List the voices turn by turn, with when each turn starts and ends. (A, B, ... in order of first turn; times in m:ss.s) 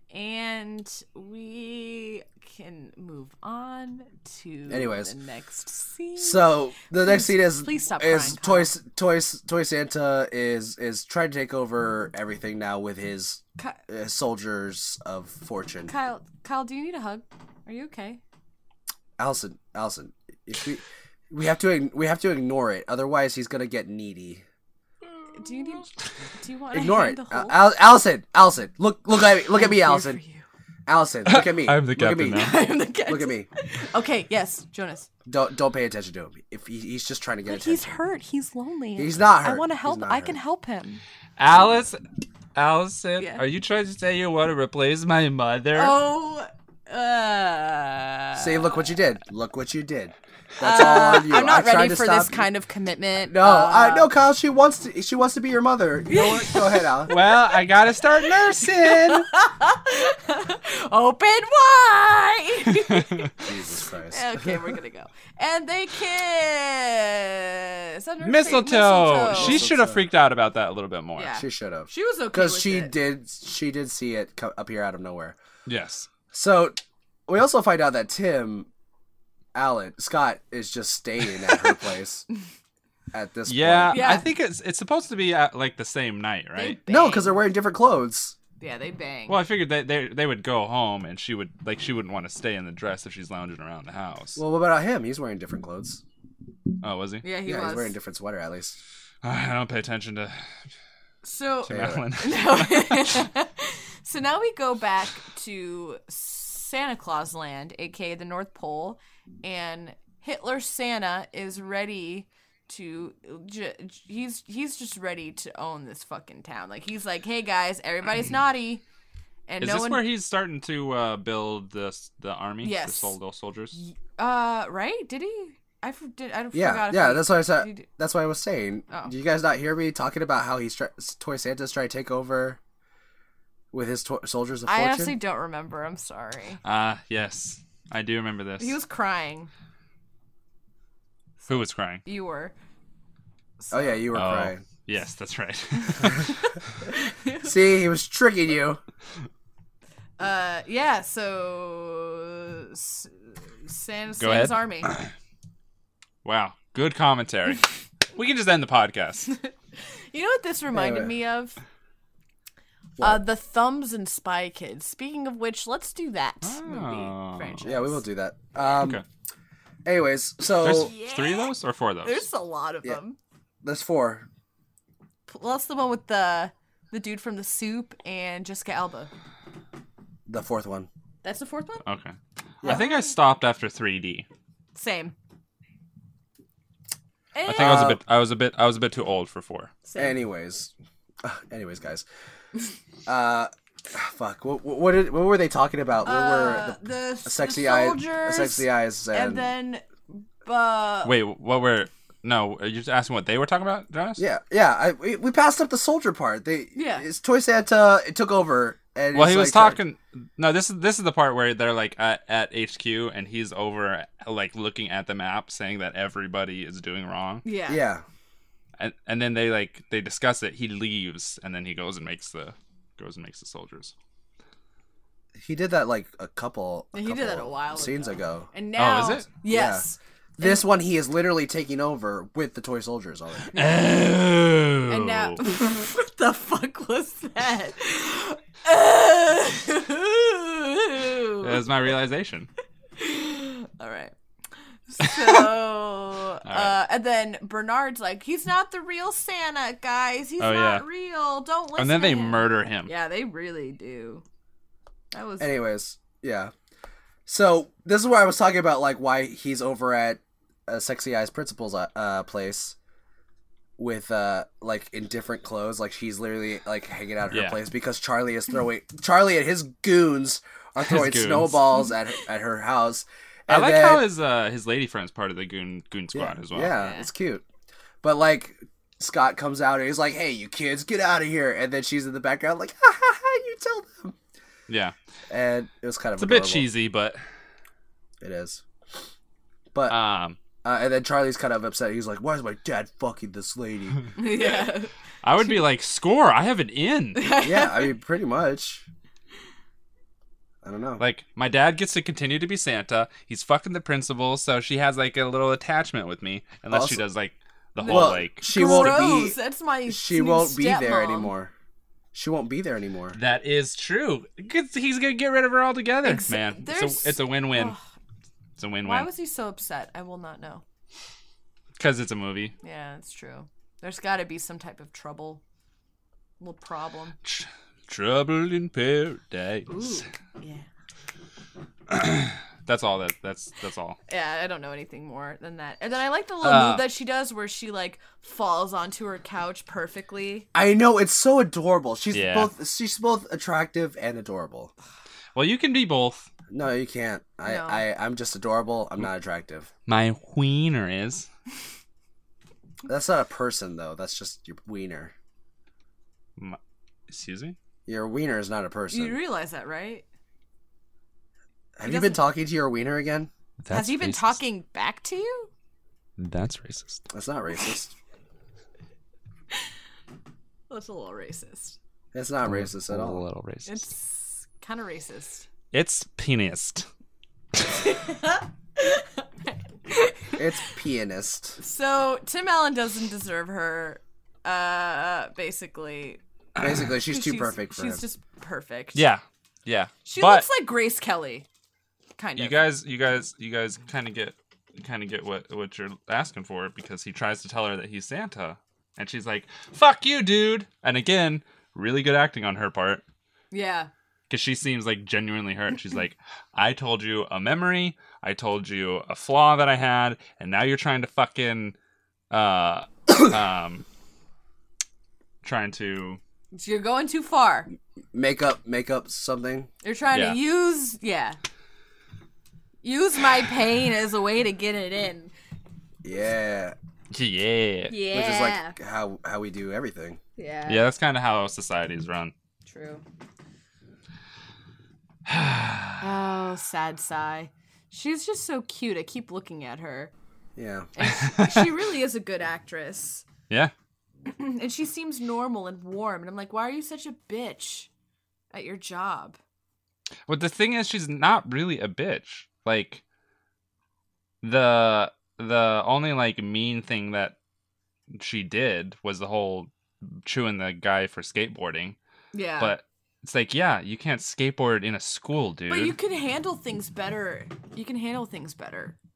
0:00.1-0:08.7 A
0:04.7-0:05.1 B
0:06.2-0:15.9 B
0:15.9-0:18.2 A
0:19.2-0:24.4 B
0:25.3-0:27.6 A
0:26.7-0:30.2 B
0:29.5-0:30.4 A
0:30.9-0:33.5 B
0:31.3-0:32.6 C
0:32.2-0:35.1 A
0:35.3-0:37.9 B
0:37.5-0:41.0 A
0:39.0-0:40.4 B
0:41.4-0:42.0 C
0:42.6-0:46.0 C
0:45.7-0:49.0 A
0:48.4-0:52.5 B
0:50.6-0:54.1 A
0:53.3-0:57.1 B
0:56.1-0:57.7 A
0:57.1-0:59.3 C
0:58.3-1:03.5 A
1:02.7-1:03.3 C
1:03.4-1:04.6 B
1:04.1-1:09.6 A
1:08.2-1:11.4 C
1:09.3-1:10.1 B
1:11.2-1:12.9 A
1:11.4-1:15.4 B
1:15.7-1:16.1 C
1:16.3-1:18.7 B
1:19.6-1:22.2 B
1:23.1-1:24.0 B
1:23.5-1:26.8 C
1:23.9-1:24.3 A
1:26.6-1:27.4 A
1:26.9-1:28.4 B
1:28.6-1:29.4 A
1:29.3-1:34.4 C
1:34.4-1:36.0 B
1:36.8-1:37.3 C
1:37.2-1:38.0 A
1:37.4-1:38.8 B
1:39.2-1:40.5 C
1:41.2-1:58.8 A
1:41.7-1:43.3 C
1:41.7-1:42.0 B
1:59.5-2:00.1 A
1:59.6-2:03.8 C
2:02.6-2:03.2 A
2:03.7-2:07.9 A
2:06.5-2:12.6 B
2:13.7-2:15.2 B
2:14.7-2:16.6 A
2:16.6-2:18.8 C
2:18.6-2:19.5 A
2:21.4-2:22.5 A
2:21.5-2:22.0 C
2:23.6-2:24.0 A
2:23.7-2:24.6 B
2:24.1-2:26.4 C
2:25.8-2:27.6 A
2:27.4-2:28.8 B
2:30.2-2:34.9 A
2:34.2-2:35.1 C
2:36.2-2:39.3 C
2:39.3-2:41.6 A
2:40.7-2:41.1 B
2:43.0-2:48.0 A
2:46.4-2:47.7 C
2:47.6-2:49.0 B
2:48.8-2:49.0 C
2:49.8-2:50.9 B
2:50.6-2:52.3 C
2:50.6-2:53.2 A
2:53.6-2:54.3 B
2:55.3-2:59.1 A
3:00.3-3:00.9 B
3:01.2-3:01.8 A
3:01.8-3:04.3 C
3:02.6-3:03.1 A
3:04.8-3:05.1 A
3:07.4-3:07.9 A
3:07.5-3:09.7 C
3:07.6-3:08.0 B
3:09.8-3:10.2 A
3:10.0-3:10.7 B
3:11.2-3:12.0 B
3:13.1-3:19.5 B
3:16.0-3:21.2 A
3:21.0-3:24.2 C
3:24.2-3:29.8 B
3:26.8-3:27.0 A
3:29.1-3:37.4 C
3:37.4-3:37.8 A
3:37.7-3:38.0 B
3:38.8-3:43.9 C
3:45.4-3:48.5 B
3:46.9-3:50.6 A
3:48.8-3:49.3 C
3:49.5-3:49.9 B
3:50.4-3:53.5 B
3:53.5-3:53.8 A
3:53.5-3:55.4 C
3:54.9-4:01.6 A
4:01.4-4:02.5 C
4:03.0-4:04.1 A
4:04.9-4:14.2 A
4:06.4-4:06.8 C
4:10.4-4:10.9 C
4:11.8-4:12.9 C
4:15.1-4:15.5 A
4:15.4-4:16.5 B
4:17.3-4:22.8 B
4:23.8-4:34.1 B
4:27.3-4:27.6 C
4:30.8-4:31.7 C
4:33.5-4:36.8 C
4:36.1-4:37.4 B
4:36.8-4:37.1 A
4:38.0-4:44.2 B
4:44.7-4:45.0 C
4:45.3-4:46.7 B
4:46.2-4:47.2 C
4:48.2-4:48.6 B
4:49.9-4:50.4 C
4:50.6-4:54.1 B
4:54.2-4:54.9 A
4:55.2-4:57.2 C
4:57.2-4:57.9 A
4:57.4-4:58.8 B
5:00.6-5:01.0 B
5:01.0-5:09.1 C
5:06.7-5:07.0 B
5:07.8-5:11.3 A
5:07.9-5:11.5 B
5:12.1-5:13.2 B
5:13.1-5:17.8 C
5:16.0-5:17.8 A
5:18.6-5:19.1 C
5:18.8-5:20.6 A
5:21.8-5:22.5 C
5:22.6-5:25.4 A
5:26.4-5:27.2 A
5:27.2-5:30.0 C
5:29.7-5:30.7 A
5:31.9-5:34.0 C
5:34.1-5:40.5 A
5:36.4-5:36.9 C
5:40.6-5:44.7 B
5:42.1-5:42.5 C
5:45.4-5:46.3 C
5:46.5-5:49.7 B
5:47.4-5:47.8 A
5:49.9-5:51.3 C
5:52.9-5:55.1 B
5:56.4-5:57.6 C
5:57.9-5:59.2 B
5:58.9-6:00.0 A
6:01.8-6:03.3 B
6:01.8-6:02.2 A
6:03.6-6:04.4 C
6:03.7-6:05.5 A
6:06.2-6:07.1 C
6:07.1-6:07.9 B
6:10.7-6:11.8 A
6:12.1-6:13.2 B
6:12.4-6:13.9 C
6:13.7-6:15.5 A
6:15.7-6:16.9 C
6:17.6-6:20.5 A
6:20.4-6:21.6 B
6:21.6-6:26.2 A
6:26.6-6:28.0 B
6:27.1-6:29.0 A
6:28.9-6:30.5 C
6:30.1-6:31.5 A
6:32.2-6:32.7 A
6:32.4-6:43.0 C
6:43.5-6:43.9 A
6:44.3-6:51.8 C
6:52.3-6:53.8 C
6:55.4-6:56.2 C
6:56.5-6:57.7 A
6:58.1-6:59.7 B
6:59.8-7:01.4 A
7:00.1-7:00.4 C
7:02.8-7:05.3 A
7:06.0-7:06.8 B
7:07.1-7:08.0 C
7:07.9-7:08.8 A
7:08.1-7:10.2 B
7:10.4-7:10.9 A
7:10.7-7:12.3 C
7:12.6-7:13.0 A
7:15.3-7:16.1 C
7:16.0-7:20.1 A
7:20.6-7:20.9 B
7:21.0-7:23.3 A
7:21.0-7:21.7 C
7:24.3-7:27.9 A
7:28.5-7:29.4 A
7:30.3-7:33.0 C
7:34.4-7:37.4 C
7:38.1-7:42.0 C
7:42.3-7:42.8 A
7:42.6-7:46.0 C
7:45.7-7:49.0 A